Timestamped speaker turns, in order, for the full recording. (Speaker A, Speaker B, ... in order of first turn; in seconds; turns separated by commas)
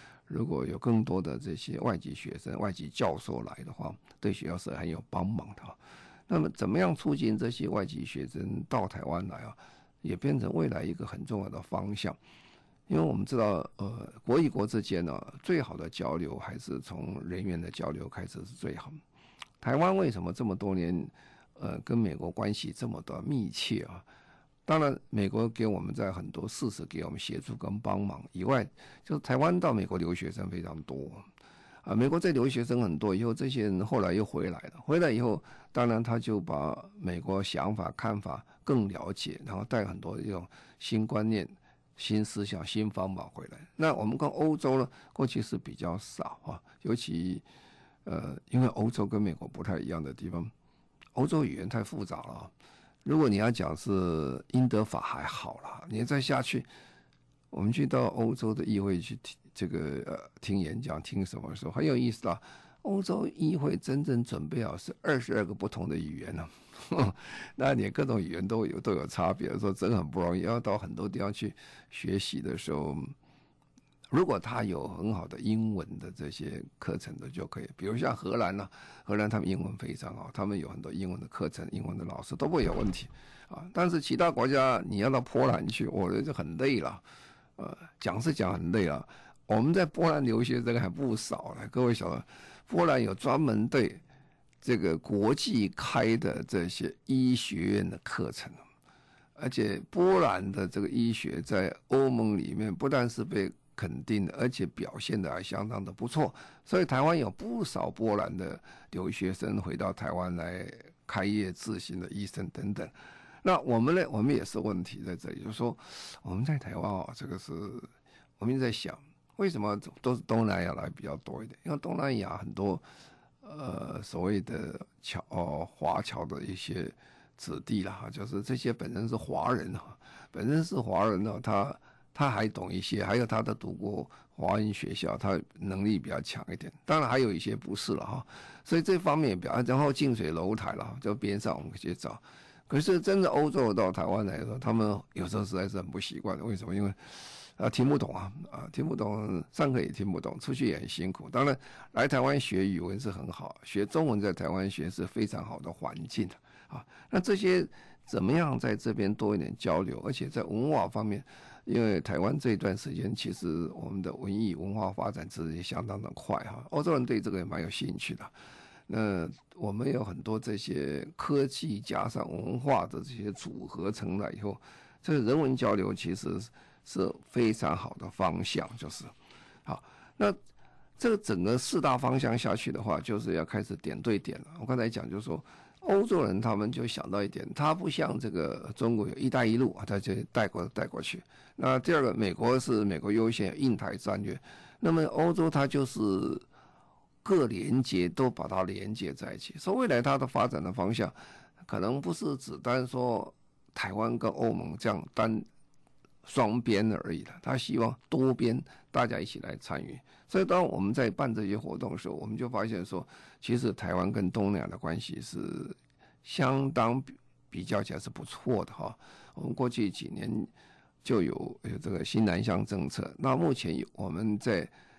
Speaker A: 0.3-12.2, Speaker A: 12.9-19.0, Speaker A: 19.6-24.0, Speaker A: 24.6-31.2, Speaker A: 31.8-47.4, Speaker A: 48.0-50.5, Speaker A: 51.1-52.5, Speaker A: 53.0-56.7, Speaker A: 57.5-73.1, Speaker A: 74.1-87.0, Speaker A: 87.6-94.0, Speaker A: 94.6-98.6, Speaker A: 99.3-122.8, Speaker A: 123.4-168.3, Speaker A: 168.9-179.1, Speaker A: 179.6-180.4, Speaker A: 181.0-196.4, Speaker A: 197.2-205.5, Speaker A: 206.2-220.5, Speaker A: 221.0-224.7